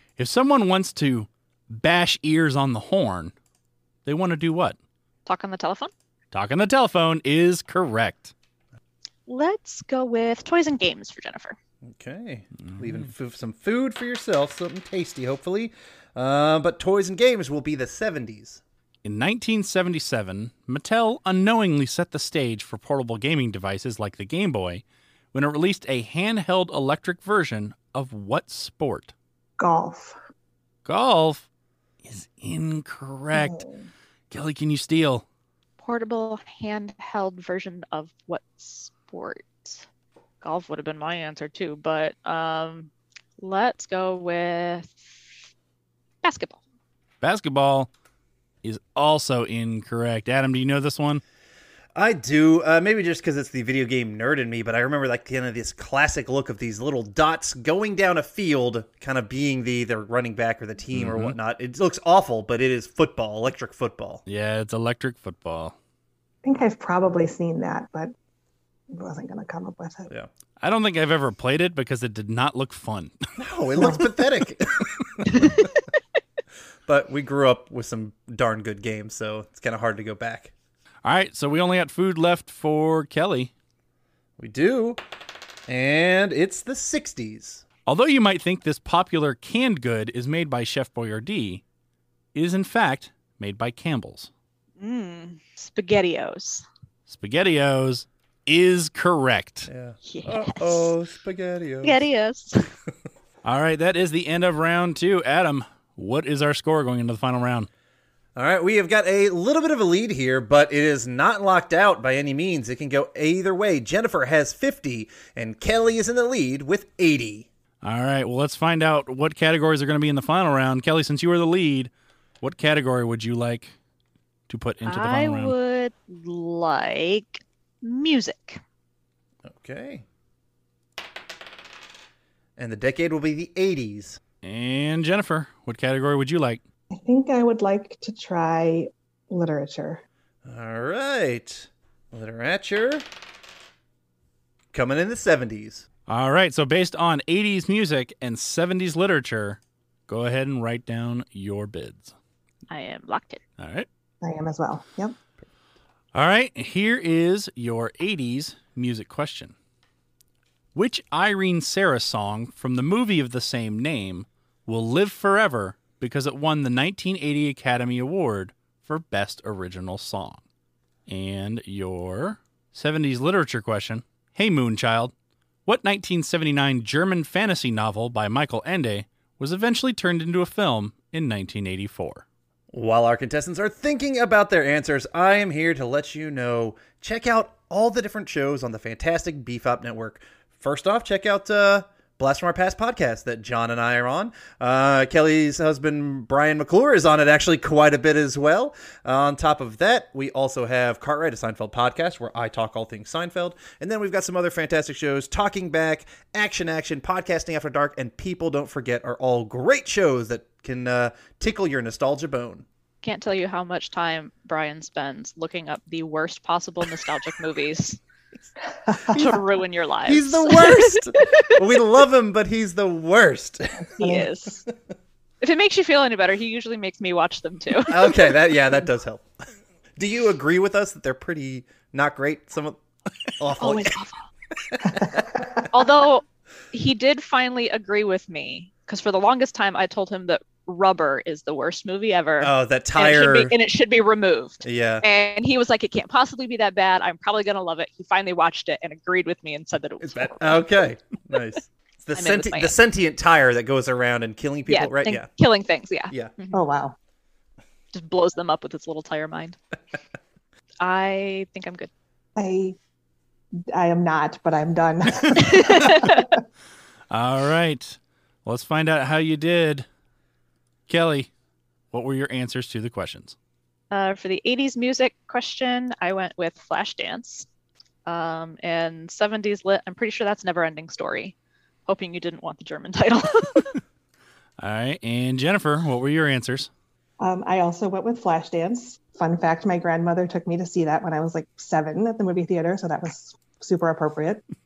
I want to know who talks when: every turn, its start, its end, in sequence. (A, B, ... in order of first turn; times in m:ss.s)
0:00.2-0:03.3 A
0:04.0-0:04.8 A
0:05.3-0:05.9 B
0:06.3-0:08.3 A
0:09.3-0:11.6 B
0:11.9-0:18.6 C
0:19.0-0:29.1 A
0:29.6-0:30.2 D
0:30.9-0:31.5 A
0:32.0-0:33.6 A
0:33.3-0:33.9 D
0:34.3-0:35.2 A
0:35.8-0:39.8 B
0:40.4-0:45.3 B
0:46.2-0:46.6 B
0:47.2-0:47.9 A
0:48.6-0:51.2 A
0:52.0-1:04.2 C
1:00.9-1:01.4 A
1:04.3-1:05.8 A
1:06.4-1:08.1 D
1:08.9-1:10.1 D
1:10.6-1:13.2 A
1:13.4-1:15.5 C
1:13.8-1:14.0 D
1:15.3-1:15.6 B
1:16.9-1:20.5 C
1:21.0-1:23.5 A
1:24.4-1:25.0 C
1:25.7-1:27.6 C
1:27.9-1:31.6 A
1:32.4-1:34.3 A
1:34.8-1:36.7 B
1:37.1-1:39.7 A
1:39.7-1:42.0 C
1:40.0-1:40.9 B
1:41.8-1:42.7 B
1:43.4-1:47.7 A
1:48.4-1:57.5 C
1:57.8-2:01.9 A
2:02.4-2:03.7 A
2:04.5-2:05.5 A
2:04.8-2:08.6 B
2:09.5-2:10.0 C
2:12.6-2:14.2 C
2:14.4-2:16.6 A
2:16.9-2:20.0 D
2:20.4-2:23.1 C
2:24.7-2:25.8 C
2:26.1-2:32.2 A
2:32.7-2:33.4 B
2:33.6-2:33.9 A
2:34.2-2:35.2 D
2:36.1-2:39.5 A
2:40.7-2:50.4 A
2:51.1-2:55.1 A
2:55.7-3:02.2 A
3:02.7-3:32.7 C
3:33.0-3:38.0 B
3:38.9-3:39.2 D
3:39.1-3:41.8 B
3:40.1-3:44.0 C
3:43.8-3:44.3 D
3:44.0-3:44.6 B
3:45.4-3:48.3 B
3:47.9-3:49.3 C
3:50.0-3:52.8 C
3:53.4-3:54.0 C
3:53.6-3:54.2 B
3:54.8-3:55.2 C
3:55.7-4:10.7 B
4:02.4-4:03.6 C
4:04.6-4:05.0 C
4:10.0-4:15.3 C
4:12.1-4:12.8 B
4:14.7-4:16.6 B
4:16.5-4:17.0 D
4:17.9-4:19.6 B
4:20.8-4:21.9 B
4:22.4-4:22.8 D
4:23.7-4:26.4 D
4:25.4-4:26.3 B
4:27.1-4:29.9 A
4:30.9-4:31.3 A
4:31.9-4:33.4 A
4:33.9-4:37.5 B
4:38.1-4:41.4 B
4:41.9-4:43.8 B
4:44.6-4:46.7 A
4:47.2-4:54.4 D